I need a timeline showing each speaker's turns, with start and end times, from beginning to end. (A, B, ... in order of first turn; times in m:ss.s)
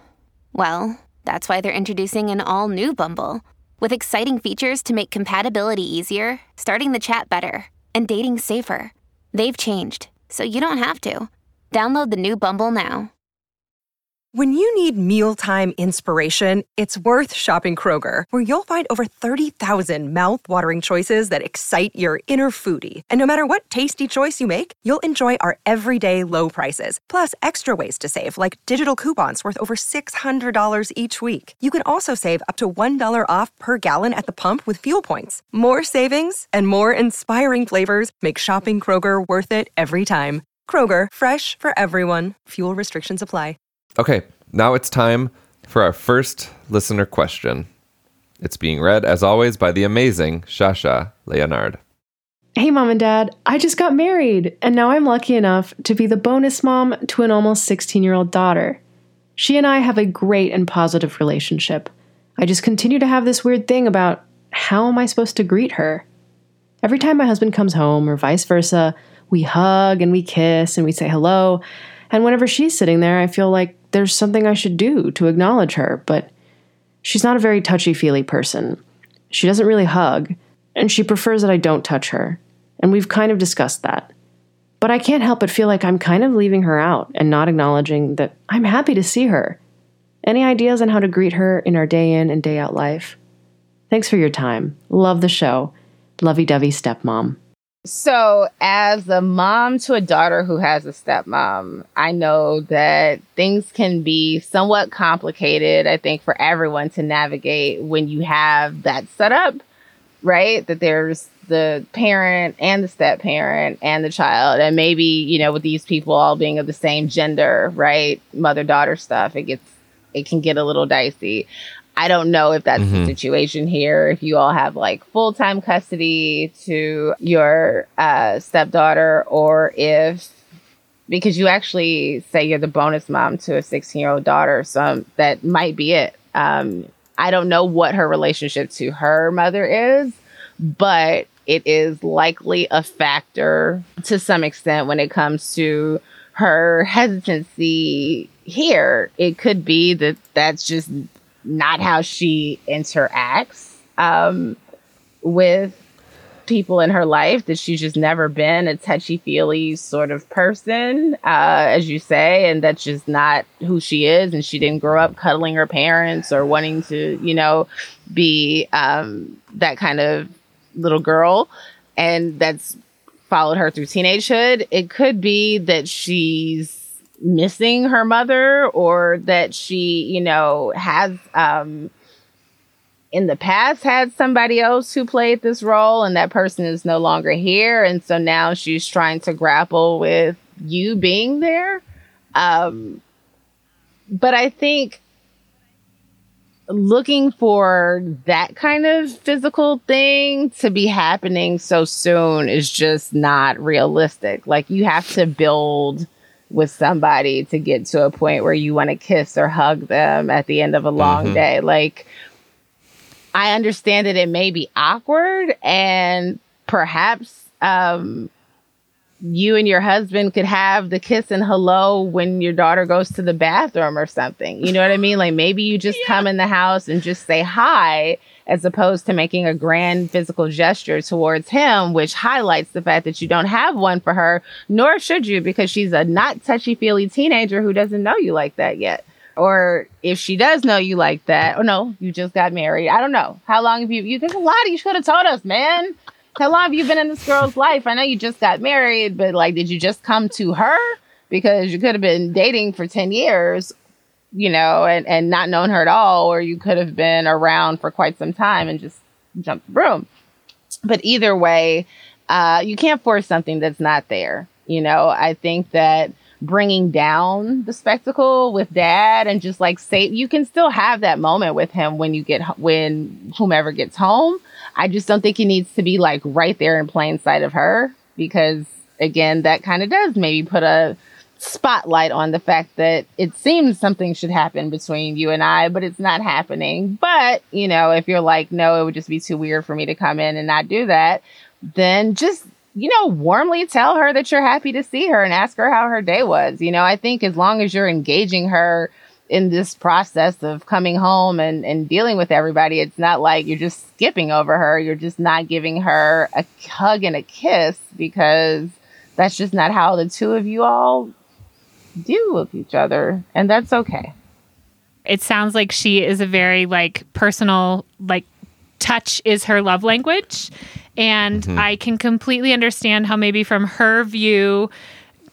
0:00.5-0:13.1 A
0:14.3-0:43.6 B
0:44.0-0:47.7 C
0:48.4-0:51.8 C
0:52.6-0:58.8 D
0:59.4-1:06.0 D
1:06.8-1:16.3 D
1:17.0-1:24.1 D
1:24.8-1:29.6 D
1:30.2-1:33.2 D
1:33.9-1:37.4 D
1:37.8-1:49.6 E
1:50.2-2:10.3 E
2:02.8-2:03.1 C
2:11.1-2:34.6 E
2:35.2-2:35.8 E
2:36.4-2:52.8 E
2:53.3-3:01.9 E
3:03.1-3:11.8 E
3:12.3-3:13.0 E
3:14.1-3:15.0 E
3:16.7-3:32.1 E
3:31.0-3:31.4 C
3:33.3-3:38.3 E
3:39.2-4:13.7 E
3:45.9-3:46.2 F
4:14.3-4:20.1 E
4:20.8-5:11.1 E
5:12.0-5:14.1 E
5:15.1-5:18.3 F
5:18.8-5:24.7 F
5:21.4-5:21.6 C